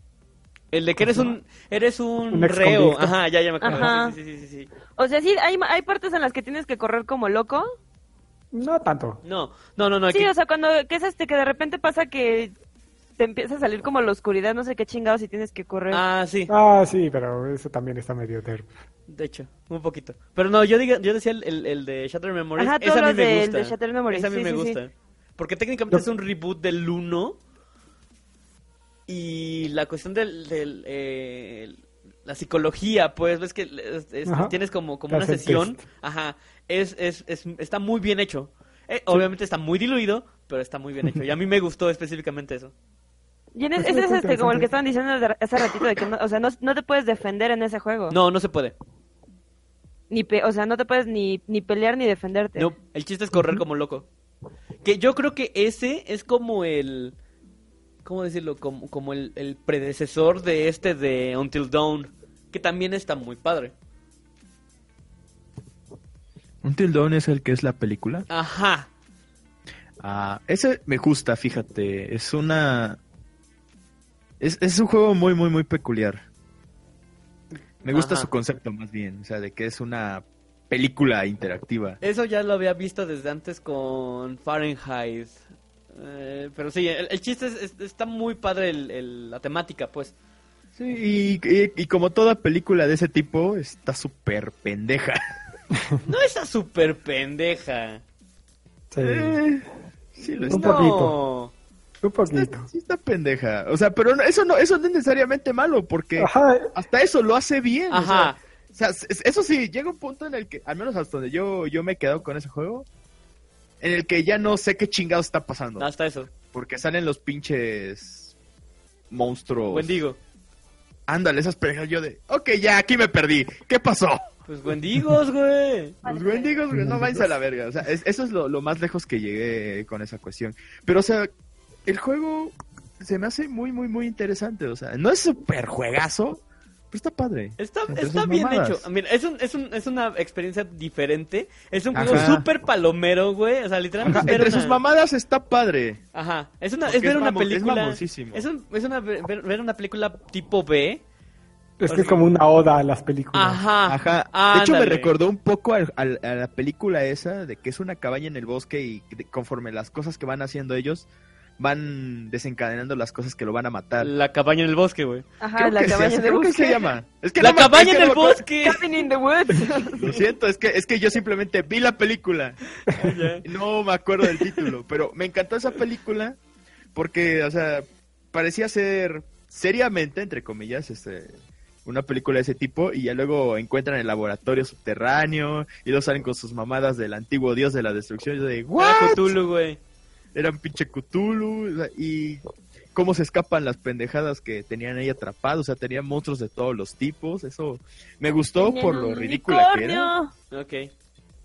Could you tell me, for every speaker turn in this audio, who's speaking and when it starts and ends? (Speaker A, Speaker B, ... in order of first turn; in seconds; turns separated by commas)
Speaker A: 0.7-4.7, Speaker B: 1.0-1.3, Speaker B: 2.3-3.9, Speaker C: 3.6-4.2, Speaker C: 4.9-7.7, Speaker B: 8.5-9.2, Speaker A: 9.2-10.3, Speaker C: 10.1-12.5, Speaker C: 13.2-16.0, Speaker A: 15.9-16.5, Speaker B: 16.5-18.7, Speaker A: 19.1-27.4, Speaker C: 22.6-24.8, Speaker A: 29.1-42.7, Speaker B: 34.2-34.6, Speaker B: 35.1-35.8, Speaker C: 43.5-48.2, Speaker B: 43.8-44.7, Speaker A: 48.1-48.8, Speaker C: 50.1-52.7, Speaker A: 52.6-54.1, Speaker B: 53.3-53.6, Speaker A: 54.8-57.2, Speaker A: 58.0-63.7, Speaker D: 66.6-68.3, Speaker A: 68.3-68.9, Speaker D: 70.0-73.0, Speaker D: 74.4-76.2, Speaker A: 77.8-78.3, Speaker D: 77.8-82.0, Speaker A: 82.0-85.4, Speaker A: 85.9-90.1, Speaker D: 90.8-95.2, Speaker B: 95.7-96.0, Speaker A: 96.0-98.0, Speaker B: 98.9-99.4, Speaker D: 99.0-100.9, Speaker A: 100.3-101.5, Speaker B: 100.5-101.2, Speaker B: 102.0-102.7, Speaker D: 102.3-112.9, Speaker B: 106.2-106.7, Speaker A: 107.9-108.4, Speaker D: 113.8-115.9, Speaker A: 115.8-116.3, Speaker D: 116.5-118.3, Speaker D: 119.1-120.0, Speaker A: 119.7-120.2, Speaker D: 121.1-124.2, Speaker A: 124.5-126.0, Speaker C: 126.0-126.5, Speaker D: 126.0-131.3, Speaker B: 126.7-127.2, Speaker D: 131.9-138.9, Speaker A: 137.6-144.8, Speaker D: 141.9-142.5, Speaker D: 144.0-146.0, Speaker B: 144.1-144.4, Speaker A: 146.1-151.0, Speaker D: 146.9-148.4, Speaker B: 151.8-153.6, Speaker A: 151.9-152.2, Speaker A: 153.3-155.1, Speaker D: 153.9-161.1, Speaker D: 161.6-164.1, Speaker A: 164.0-165.2, Speaker C: 165.4-166.9, Speaker D: 165.6-168.5, Speaker A: 167.4-168.8, Speaker C: 168.6-170.2, Speaker D: 170.0-172.6, Speaker A: 172.9-173.4, Speaker D: 173.4-176.4, Speaker D: 176.9-189.4, Speaker A: 188.8-189.8, Speaker D: 190.3-192.4, Speaker D: 192.9-200.1, Speaker C: 198.6-200.3, Speaker A: 200.5-200.9